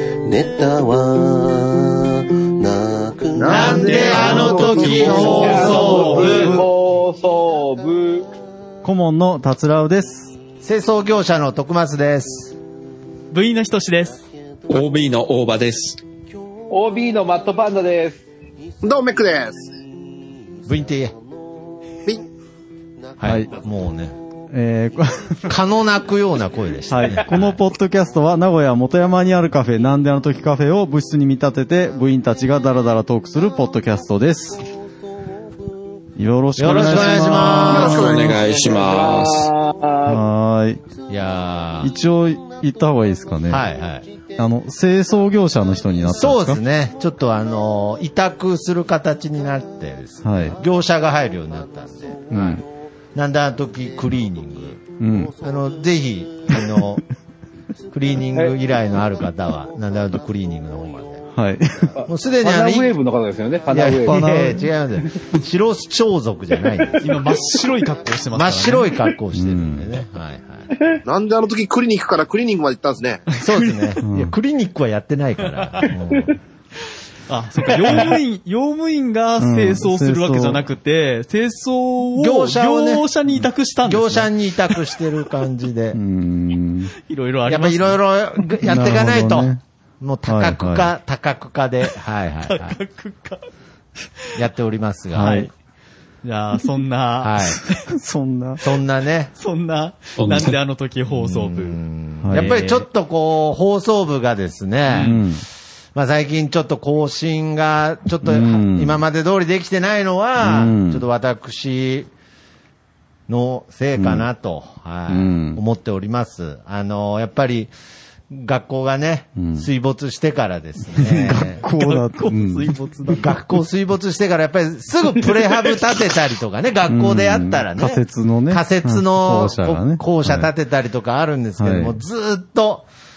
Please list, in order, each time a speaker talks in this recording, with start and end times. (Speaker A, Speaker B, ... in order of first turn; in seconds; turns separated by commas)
Speaker A: 0.2-5.2, Speaker B: 3.4-5.3, Speaker C: 3.4-6.6, Speaker D: 3.7-5.2, Speaker E: 4.1-6.5, Speaker F: 4.2-6.7, Speaker G: 5.4-8.3, Speaker F: 8.8-10.4, Speaker C: 10.6-12.6, Speaker E: 13.3-14.2, Speaker D: 14.7-16.0, Speaker G: 16.7-18.2, Speaker B: 18.8-19.7, Speaker C: 20.7-21.1, Speaker C: 23.2-24.2, Speaker F: 23.2-23.5, Speaker F: 24.5-25.6, Speaker C: 25.5-27.6, Speaker F: 26.9-34.6, Speaker F: 36.2-38.1, Speaker C: 36.6-38.1, Speaker B: 37.7-38.5, Speaker D: 37.7-39.5, Speaker G: 38.3-40.2, Speaker F: 40.1-40.8, Speaker C: 41.1-41.9, Speaker F: 41.8-43.7, Speaker C: 43.5-44.1, Speaker F: 44.4-46.6, Speaker C: 46.1-52.6, Speaker F: 50.2-50.6, Speaker F: 52.3-52.6, Speaker C: 53.1-54.8, Speaker F: 55.0-55.3, Speaker C: 55.4-57.0, Speaker C: 57.9-61.2, Speaker F: 61.3-62.0, Speaker C: 62.0-62.9, Speaker G: 62.4-64.2, Speaker C: 63.7-67.2, Speaker F: 64.0-64.7, Speaker E: 67.0-68.9, Speaker C: 68.3-70.7, Speaker F: 69.3-69.9, Speaker B: 71.1-73.2, Speaker E: 73.4-73.9, Speaker C: 73.4-76.4, Speaker F: 74.0-74.3, Speaker E: 77.3-84.8, Speaker F: 79.4-80.7, Speaker C: 82.2-83.0, Speaker C: 83.9-86.0, Speaker F: 85.9-86.9, Speaker E: 87.1-88.0, Speaker C: 87.5-92.8, Speaker F: 88.6-89.6, Speaker F: 90.3-90.9, Speaker E: 92.5-93.4, Speaker C: 94.4-95.5, Speaker F: 95.1-95.5, Speaker E: 95.2-95.5, Speaker E: 96.2-97.8, Speaker C: 97.2-97.6, Speaker F: 97.9-98.6, Speaker C: 98.6-99.3, Speaker E: 99.4-101.8, Speaker D: 100.2-100.5, Speaker F: 100.3-100.5, Speaker C: 101.1-105.2, Speaker F: 102.2-102.6, Speaker E: 102.3-102.8, Speaker E: 104.9-105.2, Speaker F: 105.0-105.4, Speaker C: 106.0-112.1, Speaker F: 108.2-109.0, Speaker F: 110.4-111.0, Speaker C: 113.3-117.7, Speaker F: 114.0-114.3, Speaker F: 115.1-115.6, Speaker C: 118.3-121.6, Speaker F: 119.4-119.7, Speaker F: 121.0-122.7, Speaker E: 121.7-123.4, Speaker C: 123.1-132.9, Speaker F: 126.9-130.5, Speaker F: 131.6-132.0